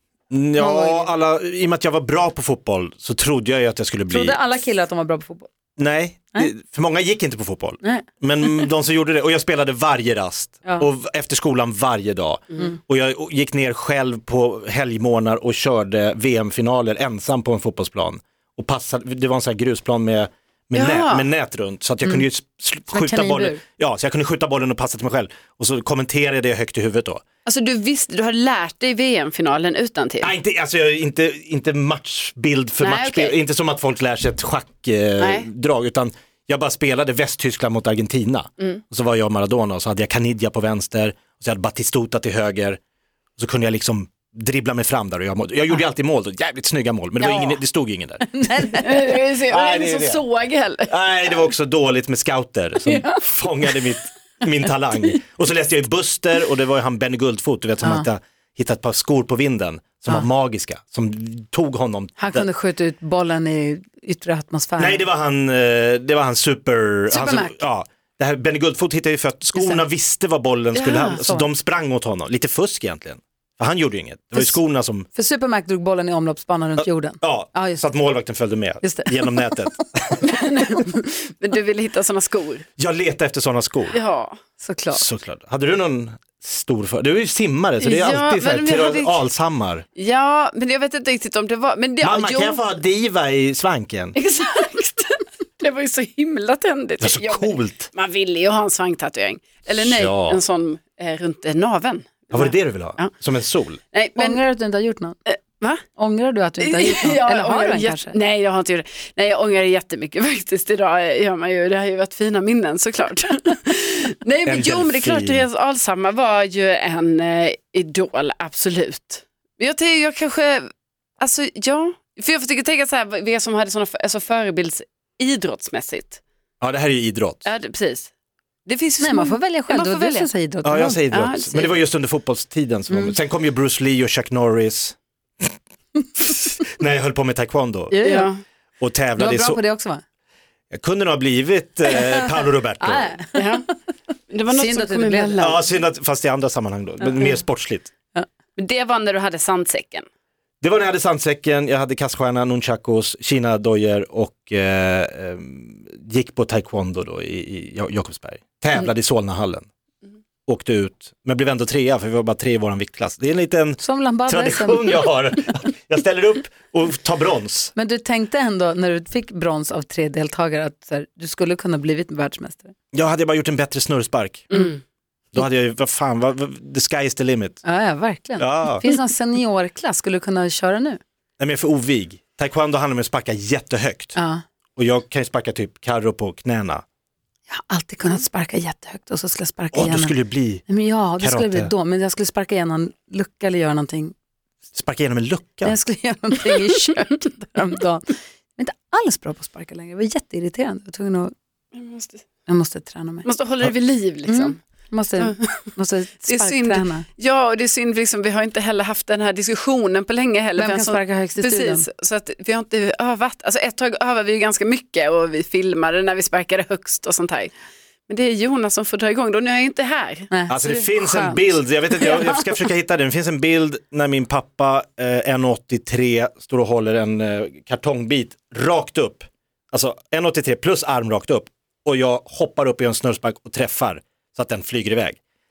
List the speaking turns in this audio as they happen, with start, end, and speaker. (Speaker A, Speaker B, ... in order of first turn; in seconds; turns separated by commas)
Speaker A: 0.3-4.4, Speaker B: 0.6-1.1, Speaker B: 4.1-5.5, Speaker A: 5.8-27.2, Speaker C: 20.7-21.3, Speaker B: 22.9-23.6, Speaker C: 27.4-30.3, Speaker A: 30.2-42.8, Speaker C: 32.8-33.4, Speaker C: 35.2-35.5, Speaker A: 43.4-48.8, Speaker B: 47.2-47.6, Speaker B: 48.3-49.1, Speaker C: 48.8-51.4, Speaker A: 49.5-50.2, Speaker A: 50.9-62.5, Speaker C: 52.8-53.7, Speaker B: 57.8-58.1, Speaker B: 62.2-65.0, Speaker A: 64.8-75.1, Speaker B: 67.1-67.6, Speaker B: 69.5-69.9, Speaker C: 70.7-71.2, Speaker B: 71.1-71.5, Speaker B: 75.1-77.9, Speaker A: 76.8-80.2, Speaker B: 78.8-79.3, Speaker C: 80.2-82.6, Speaker A: 82.8-84.0, Speaker C: 83.9-84.3, Speaker B: 84.6-85.0, Speaker A: 84.9-89.8, Speaker C: 87.8-89.3, Speaker C: 90.0-92.7, Speaker A: 92.0-94.2, Speaker C: 94.2-103.1, Speaker A: 97.0-97.9, Speaker A: 99.7-100.4, Speaker A: 102.3-103.8, Speaker C: 103.9-104.4, Speaker B: 104.2-105.2, Speaker C: 105.3-105.8, Speaker B: 105.9-108.2, Speaker C: 106.6-126.2, Speaker A: 114.5-115.5, Speaker A: 126.6-127.4, Speaker C: 127.4-128.1, Speaker C: 128.7-130.3, Speaker B: 129.0-131.1, Speaker A: 130.6-135.5, Speaker C: 131.1-131.8, Speaker B: 132.9-133.2, Speaker A: 136.3-138.2, Speaker B: 137.9-138.3, Speaker C: 138.0-138.4, Speaker A: 138.8-139.6, Speaker B: 139.2-140.0, Speaker A: 140.7-143.1, Speaker B: 141.9-143.6, Speaker C: 143.3-143.7, Speaker C: 144.3-145.7, Speaker B: 144.5-145.4, Speaker A: 145.4-147.9, Speaker B: 147.0-147.3, Speaker C: 148.6-150.1, Speaker A: 150.6-159.7, Speaker A: 160.5-167.7, Speaker B: 163.8-165.1, Speaker B: 167.8-172.7, Speaker A: 172.9-174.6, Speaker A: 175.3-177.6, Speaker B: 177.6-181.0, Speaker A: 178.4-178.8, Speaker A: 181.4-184.2, Speaker B: 184.1-184.4, Speaker A: 184.8-186.8, Speaker B: 187.5-190.1, Speaker A: 189.7-190.7, Speaker B: 190.7-194.1, Speaker A: 191.2-191.7, Speaker A: 194.7-195.7, Speaker B: 195.6-201.3, Speaker C: 201.7-202.2, Speaker B: 202.5-203.2, Speaker C: 203.2-204.6, Speaker B: 204.2-207.1, Speaker C: 205.2-205.7, Speaker C: 206.3-217.5, Speaker B: 210.6-211.8, Speaker C: 218.1-220.3, Speaker B: 220.3-221.4, Speaker A: 220.5-235.2, Speaker C: 222.0-222.4